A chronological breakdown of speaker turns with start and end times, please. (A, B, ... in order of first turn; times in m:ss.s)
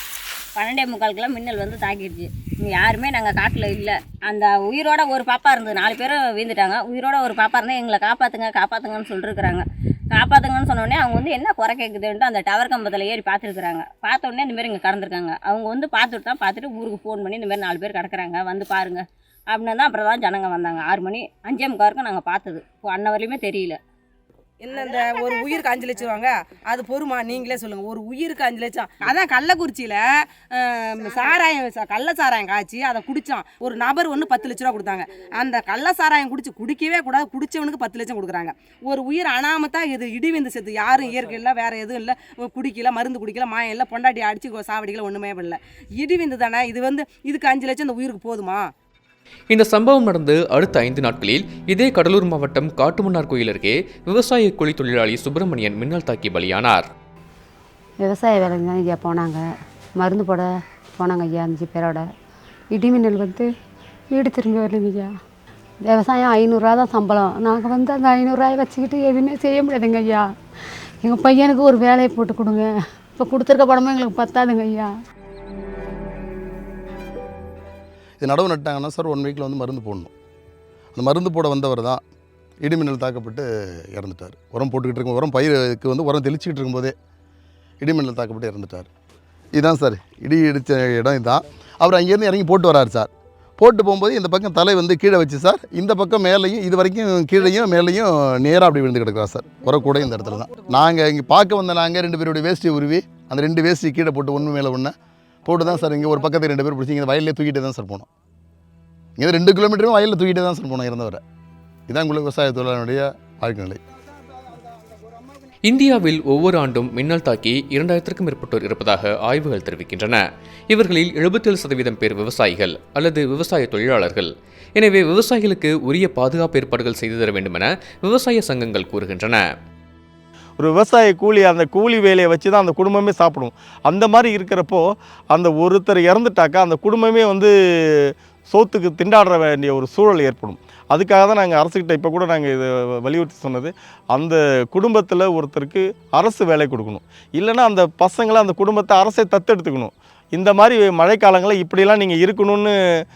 0:00.6-0:23.8 A
0:24.6-0:48.7 B
0:49.5-0:56.9 C
0:58.0-0:59.4 D
1:00.0-1:02.0 D
1:02.8-1:03.5 D
1:04.1-1:05.1 D
1:05.9-1:10.3 D
1:11.0-1:14.9 D
1:18.2-1:20.1 E
1:21.0-1:22.0 E
1:22.6-1:26.9 E
1:27.8-1:28.9 E
1:29.5-1:44.9 E
1:45.4-1:48.0 E
1:49.2-1:51.2 E
1:51.9-1:53.8 E
1:55.6-2:09.4 C
2:10.6-2:32.7 F